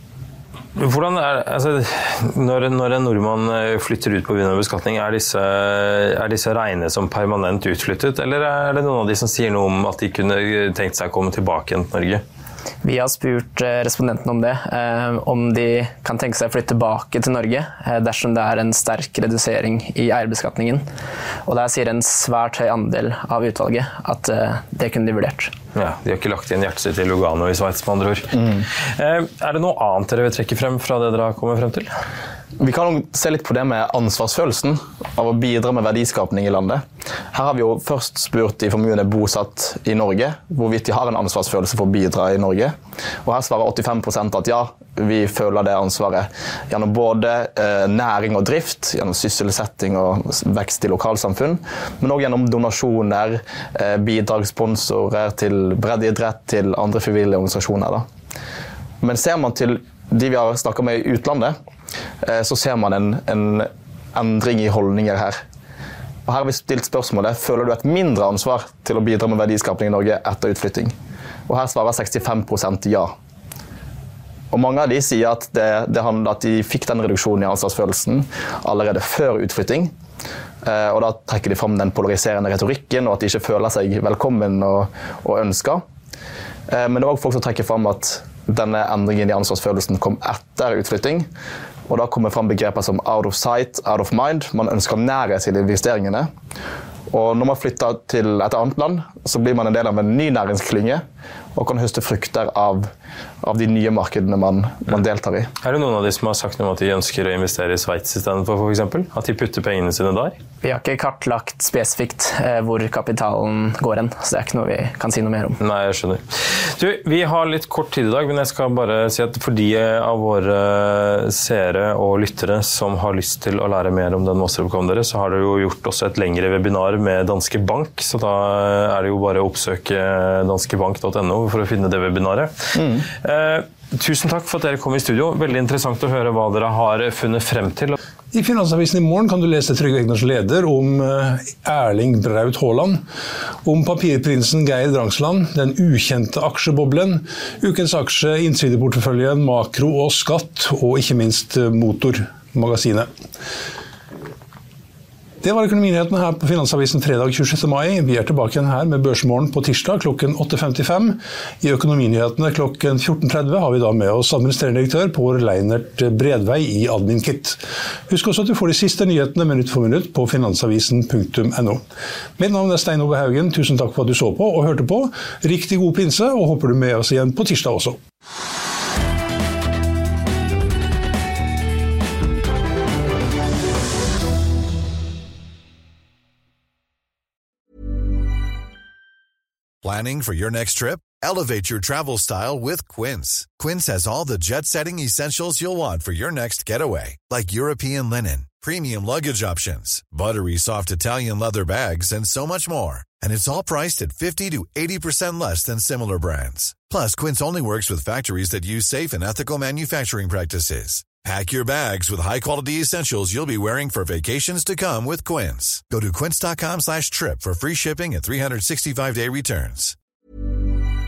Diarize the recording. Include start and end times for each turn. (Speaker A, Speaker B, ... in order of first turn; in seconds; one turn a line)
Speaker A: 0.8-12.2
Speaker B: 12.8-20.9
Speaker B: 21.5-25.5
Speaker A: 25.8-31.9
Speaker C: 32.6-58.0
Speaker C: 59.0-61.6
Speaker C: 62.2-65.4
Speaker C: 66.3-70.9
Speaker C: 71.5-73.1
Speaker C: 74.5-79.9
Speaker C: 80.6-85.8
Speaker C: 86.7-91.3
Speaker C: 91.9-96.3
Speaker C: 97.1-101.0
Speaker C: 101.5-102.9
Speaker C: 103.4-105.5
Speaker A: 105.6-110.4
Speaker B: 110.6-115.6
Speaker A: 115.6-138.0
Speaker D: 138.3-143.0
Speaker D: 143.7-153.1
Speaker D: 155.4-171.8
Speaker D: 172.4-178.0
Speaker E: 189.8-220.0